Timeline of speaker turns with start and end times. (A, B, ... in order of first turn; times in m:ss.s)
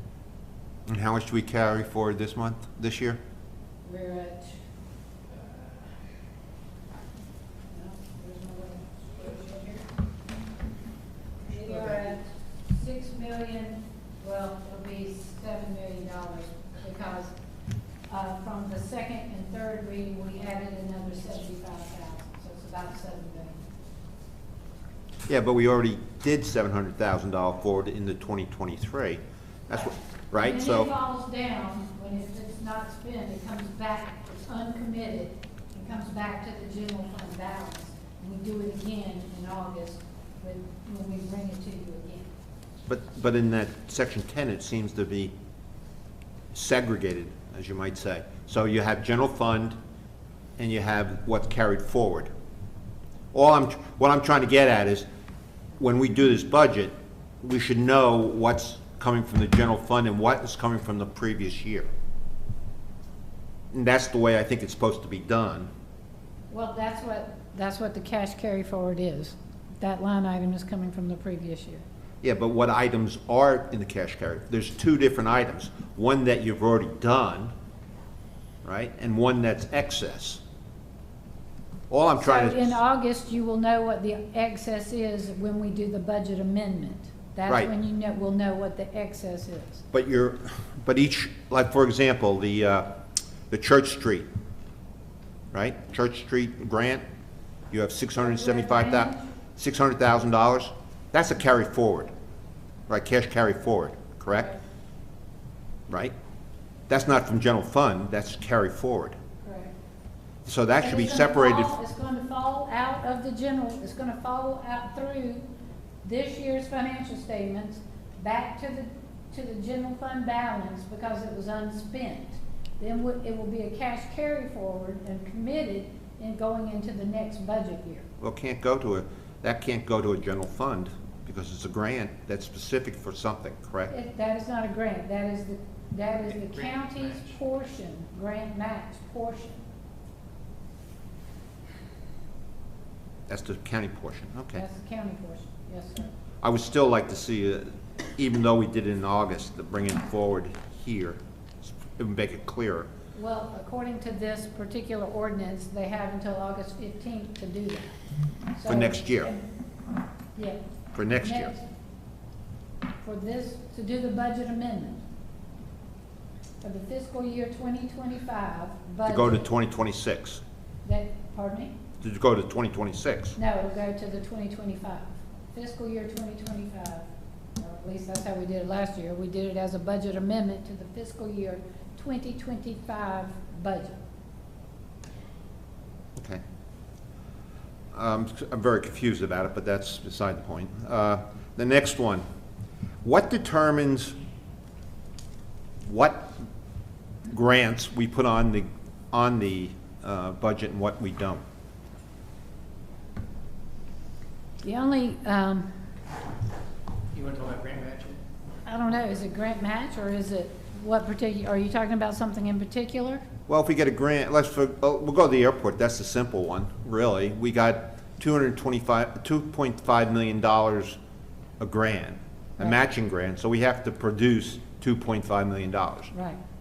0:00.9-0:03.2 A
0:03.8-0:04.6 B
0:05.3-0:05.9 B
0:07.7-0:09.9 B
0:11.5-0:17.3 B
0:18.1-0:23.6 B
0:25.3-0:30.9 A
0:29.7-0:42.3 B
0:42.9-0:45.3 A
0:46.5-0:49.7 A
0:50.6-0:52.3 A
0:53.3-0:55.0 A
0:55.8-1:01.9 A
1:03.7-1:05.7 A
1:06.5-1:11.8 B
1:12.2-1:17.5 A
1:18.6-1:20.4 A
1:21.9-1:22.8 A
1:22.2-1:29.8 B
1:29.9-1:32.9 A
1:33.5-1:34.3 A
1:35.5-1:37.0 A
1:37.7-1:42.1 A
1:38.2-1:39.3 B
1:42.9-1:44.5 A
1:45.9-1:46.1 A
1:46.9-1:49.2 A
1:49.4-1:49.7 B
1:50.4-1:51.7 A
1:50.8-1:55.4 B
1:56.0-2:08.0 B
2:08.2-2:13.9 A
2:13.9-2:19.6 B
2:16.4-2:17.3 C
2:23.3-2:24.6 A
2:24.6-2:26.1 B
2:26.4-2:32.9 A
2:33.1-2:37.9 B
2:38.5-2:39.4 B
2:38.6-2:39.3 A
2:40.3-2:40.6 B
2:40.9-2:41.5 A
2:41.2-2:41.7 B
2:43.0-2:45.0 B
2:46.6-2:49.5 B
2:49.0-2:50.4 A
2:50.8-2:51.8 B
2:52.0-2:53.4 A
2:53.4-2:57.0 B
2:57.6-3:04.0 B
3:06.2-3:06.4 A
3:07.9-3:12.2 A
3:13.0-3:14.1 A
3:15.8-3:16.4 A
3:17.3-3:21.4 A
3:24.6-3:25.7 B
3:27.1-3:28.2 C
3:28.6-3:33.2 B
3:33.5-3:41.0 A
3:41.6-3:46.1 A
3:46.1-3:46.4 B